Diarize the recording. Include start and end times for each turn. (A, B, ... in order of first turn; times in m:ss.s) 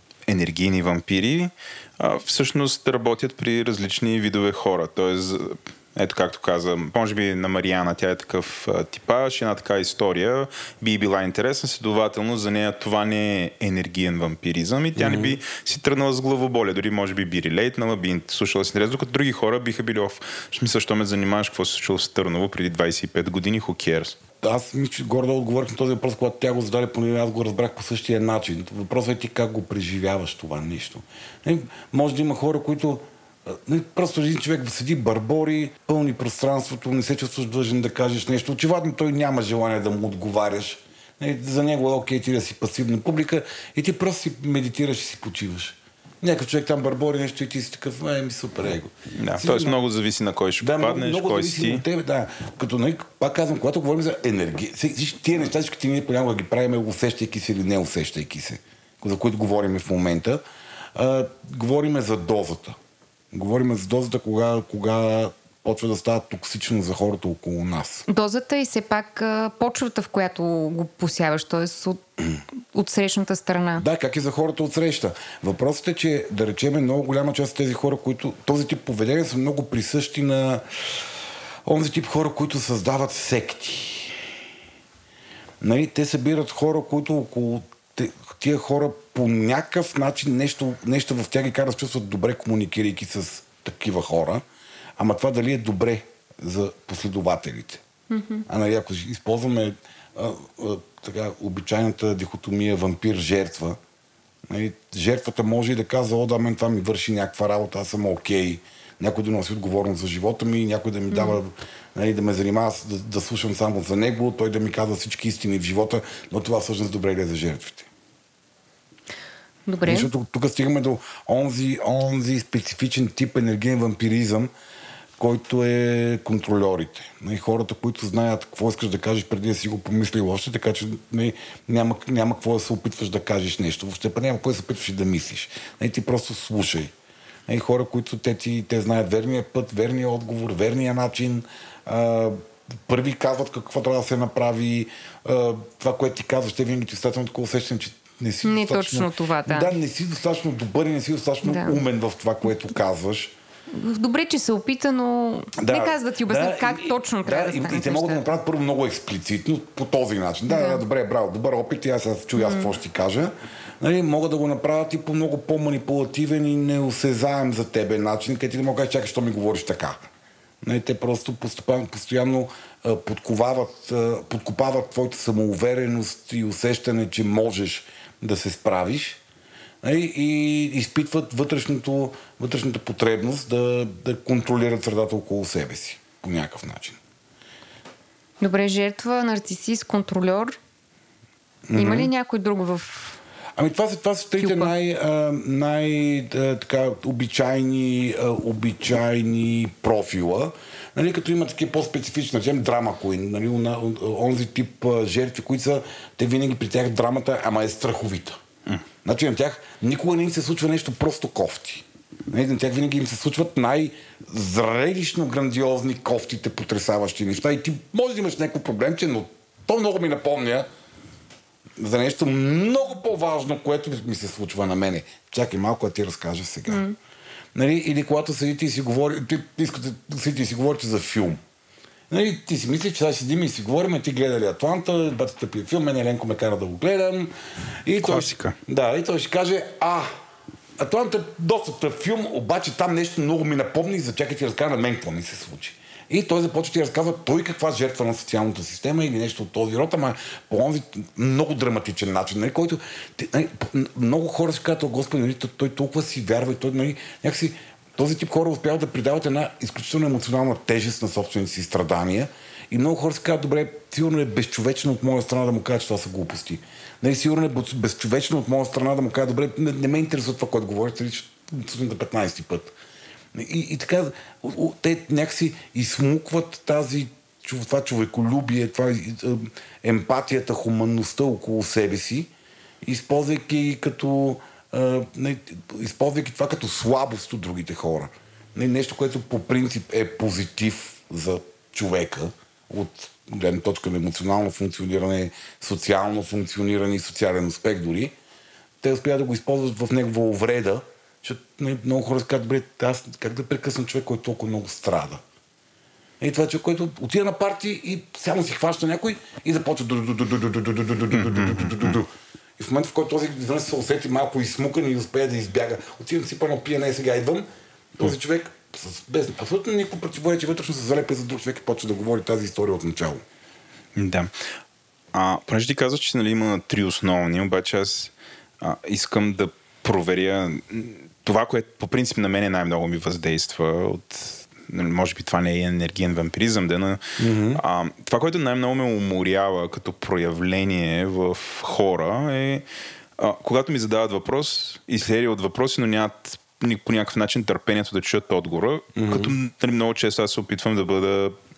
0:00.3-0:24.2 A
0:15.0-0:15.4 B
0:24.4-0:49.8 B
0:49.2-0:51.8 A
0:50.6-1:00.4 B
1:00.9-1:02.8 B
1:03.3-1:08.0 B
1:08.1-1:12.0 C
1:12.6-1:13.8 C
1:13.8-1:21.0 B
1:21.6-1:24.2 B
1:25.6-1:34.4 B
1:35.0-1:37.8 B
1:38.1-1:38.4 C
1:38.5-1:43.8 B
1:44.5-1:57.9 B
1:51.1-1:51.4 C
1:59.7-2:00.1 C
1:59.8-2:04.5 B
2:05.2-2:16.9 B
2:17.5-2:33.3 B
2:28.4-2:29.7 C
2:31.4-2:31.8 C
2:33.7-2:38.2 C
2:35.6-2:50.1 B
2:40.5-2:40.8 C
2:42.4-2:42.7 C
2:50.6-2:59.2 B
2:59.8-3:07.0 B
3:08.4-3:10.6 C
3:11.7-3:12.1 B
3:11.7-3:13.2 C
3:13.6-3:28.4 B
3:14.4-3:14.7 C
3:29.0-3:40.7 B
3:41.8-3:46.8 B
3:46.7-3:47.0 C
3:47.5-3:51.4 B
3:52.1-3:57.3 B
3:57.8-4:00.1 B
3:58.0-3:58.6 A
4:00.8-4:32.7 B
4:33.3-4:42.3 B
4:42.8-4:58.1 B
4:58.8-5:05.2 B
5:06.2-5:23.2 B
5:11.1-5:11.9 A
5:24.0-5:24.3 A
5:25.1-5:42.6 A
5:37.2-5:37.6 B
5:43.2-5:51.4 A
5:49.0-5:49.3 B